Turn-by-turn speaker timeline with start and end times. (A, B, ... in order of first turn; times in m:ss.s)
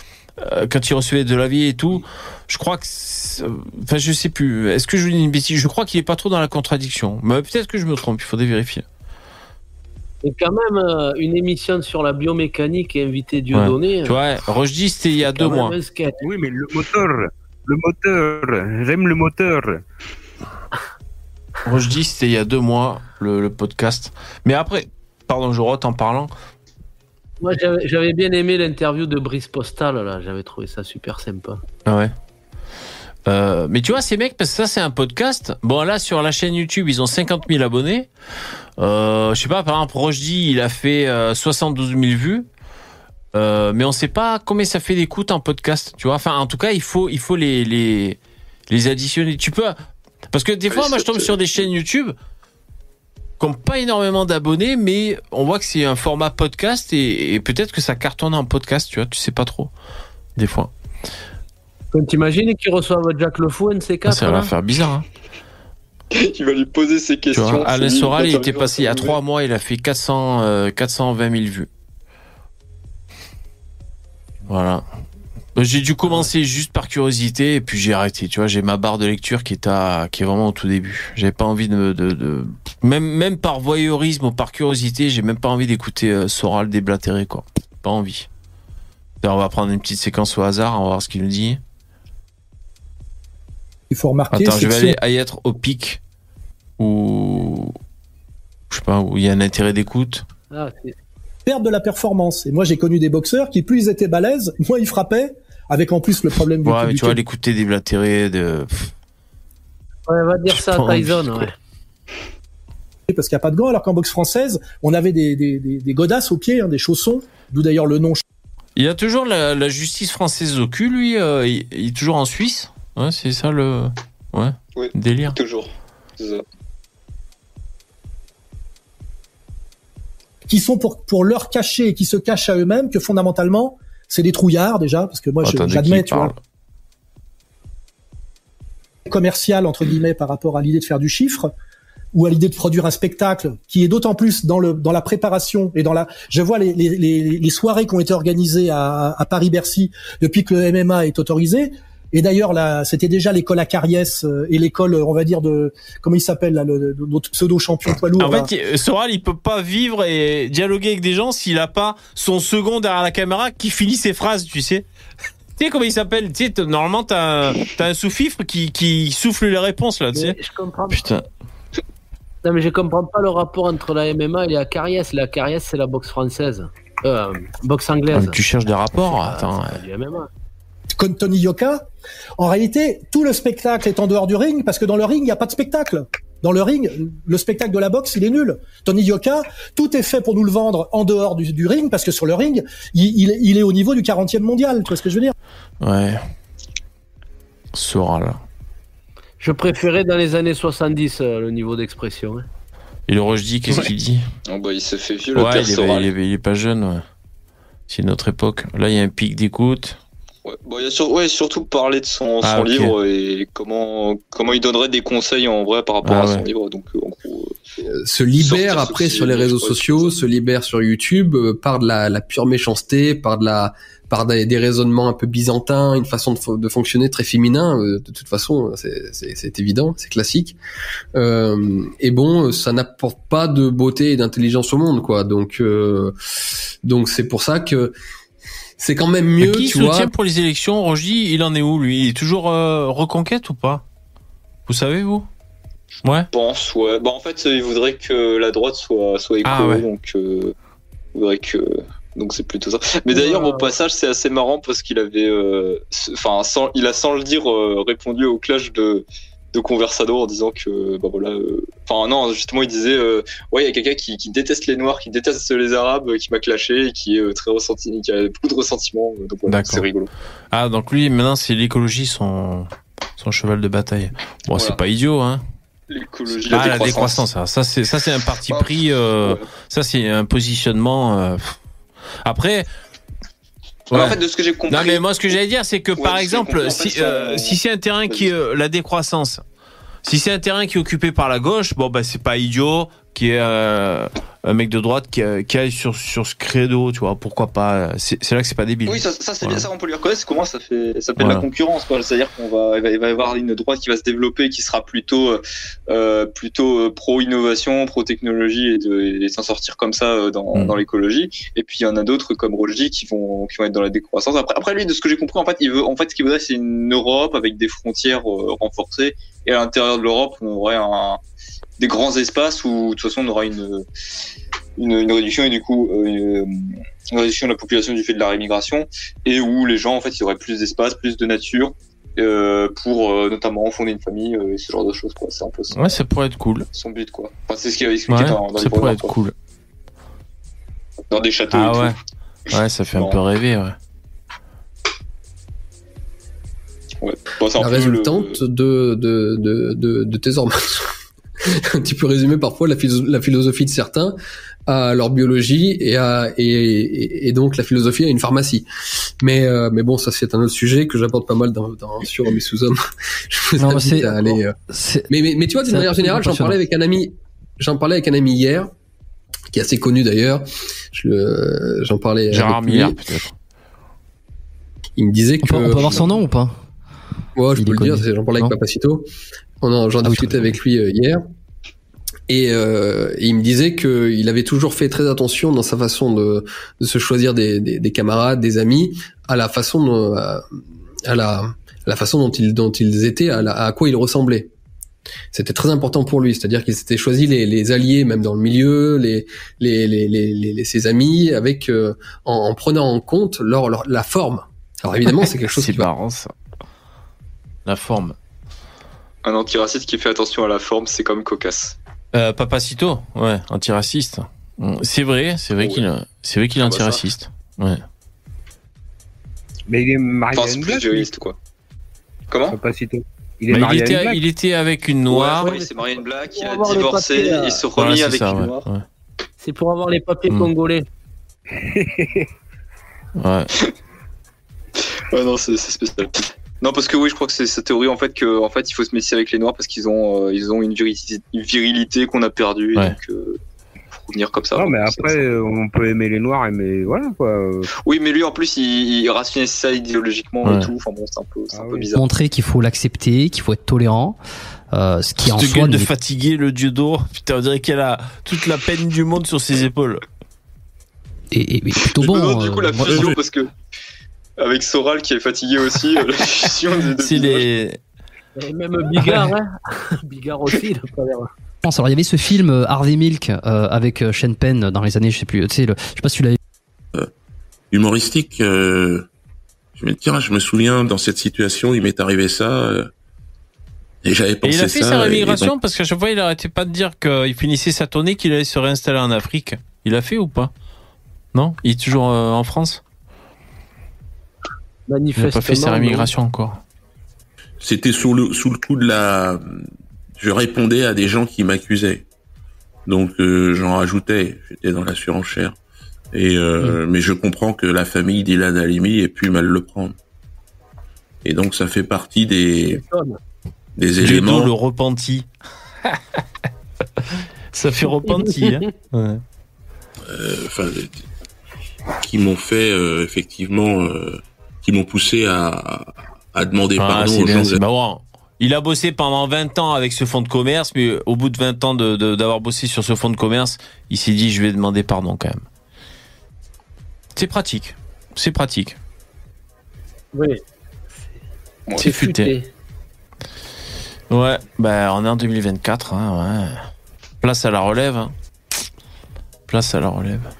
0:00.4-0:08.8 A
0:10.2-0:14.2 B
0:13.5-0:15.8 A
0:15.3-0:16.2 B
0:16.2-0:19.8 C
0:21.6-0:26.3 A
0:27.4-0:31.6 B
0:31.8-0:32.1 A
0:33.2-0:38.1 A
0:38.8-0:42.4 A
0:43.3-0:49.8 A
0:50.3-0:52.2 A
0:50.7-0:51.6 D
0:53.4-0:59.7 A
1:00.4-1:00.7 A
1:01.9-1:04.5 B
1:04.1-1:05.0 A
1:06.1-1:09.1 D
1:07.3-1:11.7 A
1:14.4-1:14.8 A
1:15.6-1:28.3 A
1:29.2-1:31.6 A
1:33.9-1:35.0 E
1:34.3-1:36.0 A
1:36.8-1:37.7 A
1:38.7-1:40.2 A
1:40.5-1:41.0 B
1:41.4-1:47.2 E
1:46.6-1:48.9 A
1:50.1-1:51.5 B
1:50.5-1:51.5 A
1:53.1-1:58.2 E
1:58.8-2:05.4 A
2:04.7-2:06.4 D
2:10.5-2:16.3 E
2:15.4-2:16.4 A
2:19.1-2:21.5 E
2:22.1-2:38.5 E
2:38.2-2:44.8 A
2:45.6-2:50.4 A
2:50.1-2:51.1 B
2:50.9-2:51.2 A
2:52.4-2:58.4 B
2:58.1-2:59.8 A
2:59.0-3:00.3 B
3:01.0-3:01.8 E
3:02.4-3:15.3 E
3:15.8-3:16.2 A
3:17.7-3:18.4 A
3:19.4-3:22.4 B
3:23.1-3:24.2 A
3:24.5-3:26.1 D
3:25.3-3:27.0 A
3:27.9-3:30.0 A
3:30.4-3:37.6 D
3:32.4-3:32.9 A
3:36.0-3:36.4 A
3:37.9-3:50.6 F
3:38.4-3:40.1 D
3:51.1-3:56.1 F
3:56.8-3:57.9 F
3:58.8-4:00.1 F
3:59.4-4:03.8 A
4:04.7-4:05.3 A
4:06.0-4:06.3 A
4:06.3-4:10.5 D
4:09.4-4:09.8 A
4:11.1-4:30.1 D
4:13.1-4:13.7 B
4:29.5-4:29.8 A
4:30.5-4:35.4 A
4:34.5-4:34.8 D
4:35.9-4:37.2 D
4:36.3-4:41.6 A
4:38.5-4:39.4 D
4:42.2-4:42.7 A
4:43.9-4:45.0 D
4:43.9-4:44.2 A
4:44.7-4:49.4 A
4:46.0-4:47.6 D
4:50.0-4:59.6 A
4:58.8-5:21.2 D
5:01.2-5:01.4 A
5:10.5-5:10.8 A
5:21.8-5:23.8 D
5:24.8-5:36.0 D
5:35.7-5:36.7 A
5:36.7-5:39.1 D
5:38.1-5:39.3 A
5:41.1-5:42.0 D
5:41.5-5:42.0 A
5:42.5-5:43.7 A
5:47.0-5:48.4 D
5:47.6-5:50.9 F
5:51.4-5:54.2 F
5:54.7-5:58.7 F
5:59.2-6:02.8 F
6:03.3-6:04.5 F
6:03.6-6:06.6 G
6:05.1-6:08.7 F
6:09.5-6:13.1 F
6:12.3-6:13.3 A
6:15.0-6:16.2 F
6:15.4-6:16.6 G
6:17.4-6:19.1 F
6:17.5-6:18.6 G
6:19.6-6:21.2 F
6:20.0-6:20.6 G
6:22.3-6:30.4 F
6:31.0-6:34.5 F
6:35.3-6:45.9 F
6:45.5-6:46.3 A
6:47.6-6:48.2 A
6:49.2-6:51.8 D
6:52.1-6:57.8 A
6:56.6-6:57.0 D
6:59.7-7:01.1 C
7:00.3-7:01.3 D
7:02.3-7:02.6 D
7:02.5-7:04.2 C
7:03.5-7:05.5 A
7:05.1-7:08.6 D
7:05.4-7:05.8 B
7:06.3-7:07.6 B
7:07.8-7:08.8 A
7:09.4-7:10.8 B
7:11.5-7:12.3 C
7:13.2-7:13.5 A
7:15.1-7:23.4 D
7:23.9-7:25.2 D
7:24.6-7:27.7 C
7:27.8-7:32.0 D
7:30.4-7:30.7 A
7:31.5-7:31.9 C
7:31.9-7:35.9 G
7:35.2-7:40.0 A
7:41.3-7:43.1 G
7:42.0-7:43.5 D
7:42.8-7:43.2 H
7:44.4-7:47.4 D
7:47.0-7:47.8 A
7:48.4-7:51.3 B
7:51.6-7:56.4 G
7:57.7-7:59.1 H
7:59.8-8:02.9 H
8:04.0-8:05.5 H
8:04.4-8:10.5 A
8:11.3-8:12.8 A
8:14.9-8:16.1 B
8:15.2-8:16.6 A
8:17.6-8:19.6 H
8:20.2-8:22.0 H
8:22.9-8:25.6 H
8:26.1-8:29.9 H
8:31.2-8:32.8 H
8:32.6-8:33.2 B
8:33.8-8:34.5 H
8:34.0-8:35.3 A
8:37.5-8:39.2 A
8:38.0-8:38.6 B
8:40.1-8:41.0 H
8:42.0-8:47.6 H
8:46.8-8:55.4 A
8:57.1-8:58.8 A
9:00.1-9:00.4 B
9:01.7-9:02.0 D
9:01.8-9:02.3 A
9:01.8-9:02.5 B
9:04.1-9:06.6 A
9:07.2-9:08.1 A
9:09.5-9:10.3 A